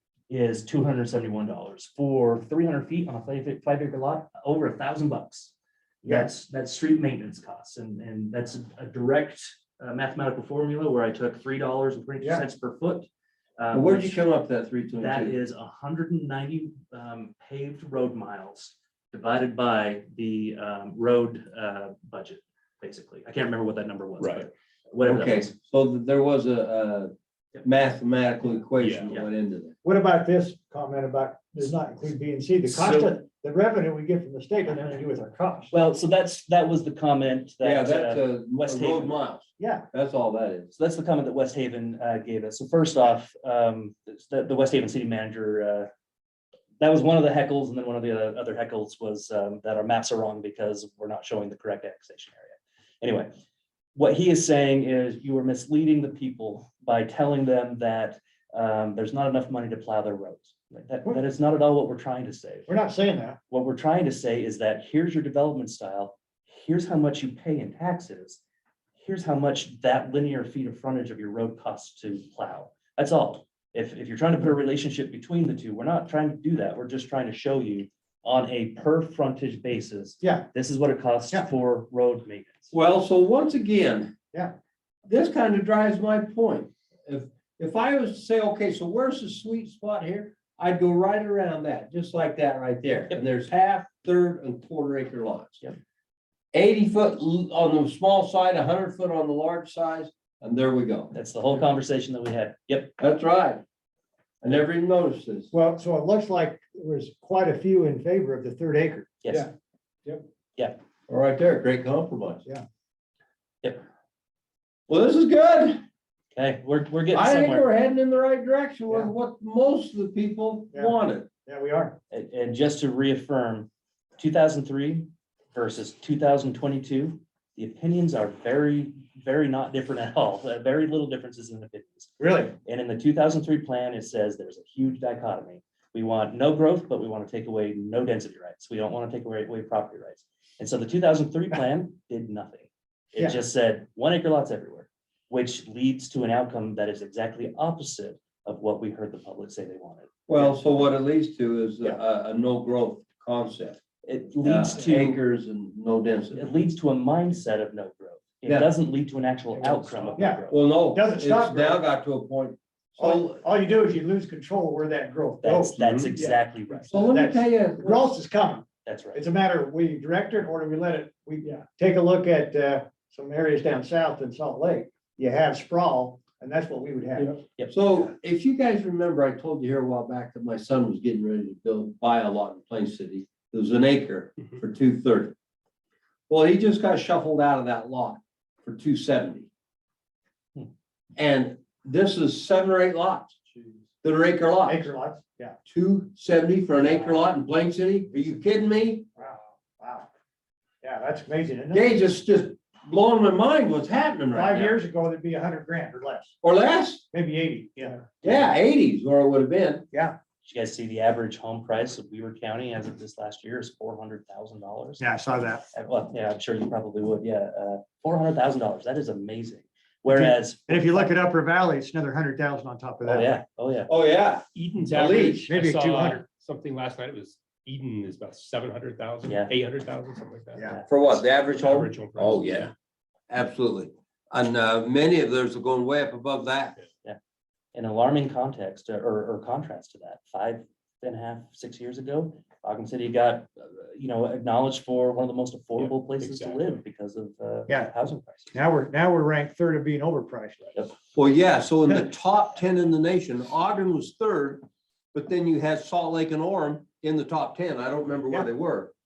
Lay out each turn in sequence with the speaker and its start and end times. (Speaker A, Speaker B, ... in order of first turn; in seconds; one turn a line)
Speaker A: 0.3-5.5
Speaker A: 6.0-14.2
Speaker B: 12.2-12.5
Speaker C: 13.7-15.4
Speaker A: 14.9-25.5
Speaker D: 24.2-24.5
Speaker C: 25.0-29.7
Speaker D: 28.8-29.1
Speaker B: 29.8-35.7
Speaker A: 32.7-33.1
Speaker A: 35.7-39.2
Speaker C: 37.6-40.7
Speaker B: 39.6-39.9
Speaker A: 40.7-45.9
Speaker A: 46.8-53.3
Speaker A: 54.0-62.7
Speaker B: 62.7-63.4
Speaker A: 63.5-68.4
Speaker A: 69.0-82.7
Speaker B: 80.2-80.5
Speaker C: 82.7-84.1
Speaker C: 85.1-95.6
Speaker C: 96.5-101.1
Speaker A: 101.1-103.0
Speaker C: 103.0-103.6
Speaker C: 104.4-105.5
Speaker B: 105.5-109.2
Speaker A: 109.2-109.5
Speaker C: 111.1-112.4
Speaker C: 114.9-115.8
Speaker A: 116.3-117.7
Speaker C: 117.1-121.3
Speaker B: 121.5-122.0
Speaker A: 122.1-150.4
Speaker B: 132.2-132.5
Speaker C: 150.3-153.8
Speaker A: 154.0-155.2
Speaker C: 154.4-156.6
Speaker A: 156.3-160.7
Speaker C: 158.4-158.7
Speaker D: 159.6-160.2
Speaker B: 160.2-161.8
Speaker C: 160.5-163.4
Speaker B: 163.0-165.8
Speaker A: 165.4-166.9
Speaker D: 165.8-166.4
Speaker C: 165.8-166.2
Speaker C: 166.9-168.1
Speaker B: 166.9-177.4
Speaker A: 168.8-169.2
Speaker C: 177.7-185.3
Speaker C: 186.3-189.5
Speaker C: 191.2-193.4
Speaker C: 194.0-194.9
Speaker B: 194.6-195.6
Speaker C: 195.7-199.1
Speaker B: 199.2-200.1
Speaker B: 200.8-201.9
Speaker C: 201.7-204.8
Speaker B: 204.3-206.3
Speaker C: 206.4-207.0
Speaker B: 207.1-208.4
Speaker C: 208.2-209.8
Speaker A: 210.4-215.0
Speaker B: 215.0-215.6
Speaker A: 215.7-221.2
Speaker B: 220.1-223.3
Speaker A: 223.0-223.9
Speaker C: 223.9-225.5
Speaker D: 224.5-230.7
Speaker B: 225.1-226.2
Speaker A: 229.2-229.5
Speaker C: 230.9-232.7
Speaker D: 231.3-232.7
Speaker C: 233.3-236.8
Speaker A: 237.7-248.5
Speaker D: 245.8-246.8
Speaker B: 247.7-247.9
Speaker B: 248.5-250.8
Speaker C: 251.2-254.6
Speaker C: 255.1-258.9